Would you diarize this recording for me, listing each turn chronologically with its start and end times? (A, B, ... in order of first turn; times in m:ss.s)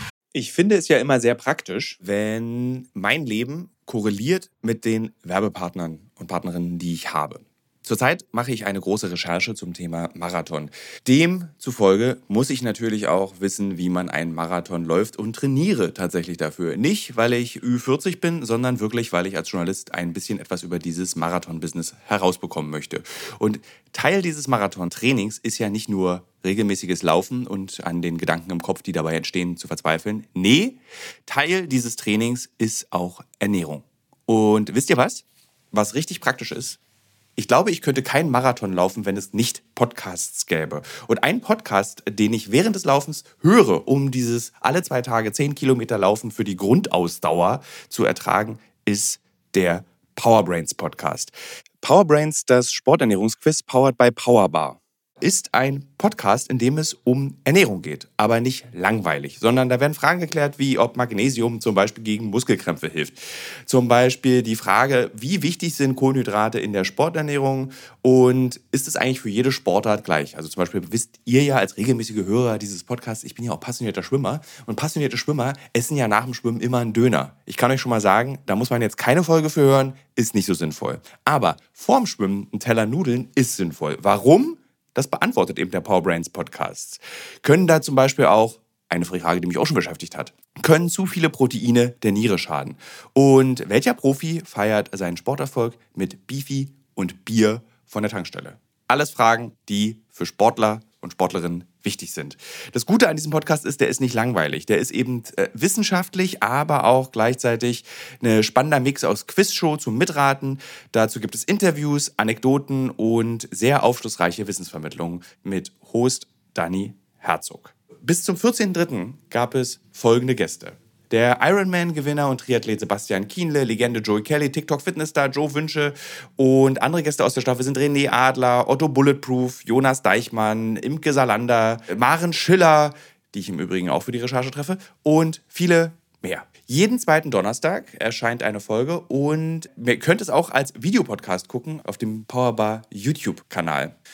0:00.3-0:36.8 A
0:37.4-2:24.0 A